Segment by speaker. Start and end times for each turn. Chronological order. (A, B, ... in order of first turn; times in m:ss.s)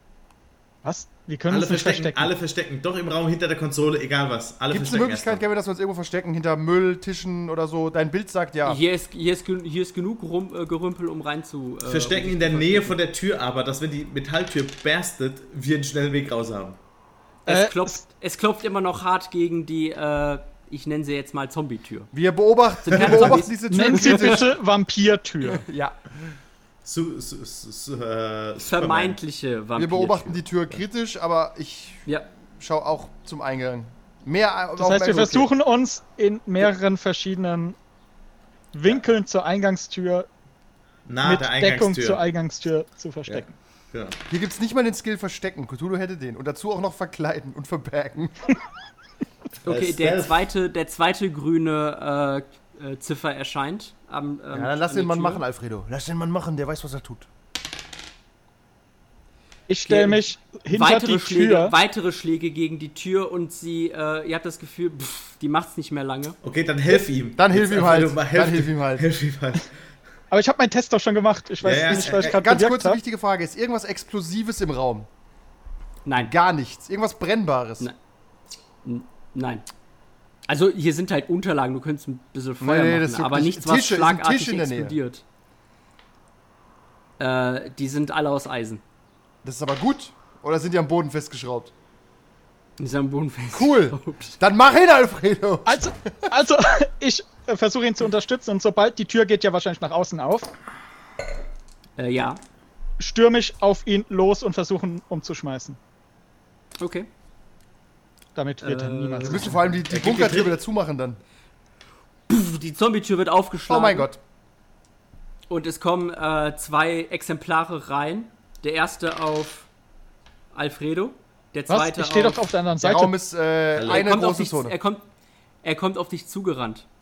0:00.8-0:02.3 A
0:01.5-0:05.4 B
0:04.7-0:08.8 C
0:08.6-0:13.0 D
0:11.9-0:16.8 B
0:17.4-0:22.1 D
0:17.5-0:18.0 A
0:22.1-0:24.5 C
0:22.8-0:24.4 D
0:23.7-0:25.7 A
0:25.5-0:26.3 C
0:26.8-0:29.2 B
0:28.6-0:30.4 D
0:29.8-0:35.5 C
0:34.8-0:37.8 A
0:38.7-0:40.3 A
0:41.1-0:42.2 B
0:41.2-0:43.5 A
0:43.3-0:44.2 B
0:44.3-0:48.4 C
0:49.6-0:55.4 D
0:49.6-0:50.3 B
0:54.5-0:57.3 C
0:59.7-1:01.7 A
0:59.8-1:06.4 D
1:06.4-1:09.7 B
1:07.4-1:09.1 C
1:10.3-1:13.0 A
1:11.6-1:12.4 B
1:11.9-1:15.1 C
1:16.0-1:16.3 D
1:16.2-1:17.9 C
1:18.8-1:19.6 D
1:20.5-1:25.2 D
1:22.6-1:25.0 C
1:27.2-1:28.8 D
1:29.4-1:31.7 C
1:32.8-1:34.4 D
1:33.5-1:36.3 C
1:35.6-1:40.5 A
1:42.0-1:42.4 D
1:43.0-1:45.8 A
1:46.8-1:47.1 D
1:48.3-1:49.6 A
1:48.6-1:49.6 D
1:49.2-1:51.2 C
1:49.9-1:50.6 B
1:52.3-1:54.1 D
1:53.7-1:54.2 C
1:55.5-1:59.7 D
2:00.5-2:02.4 D
2:01.7-2:03.1 A
2:02.8-2:04.7 C
2:03.8-2:04.1 B
2:03.8-2:05.1 D
2:05.6-2:06.8 D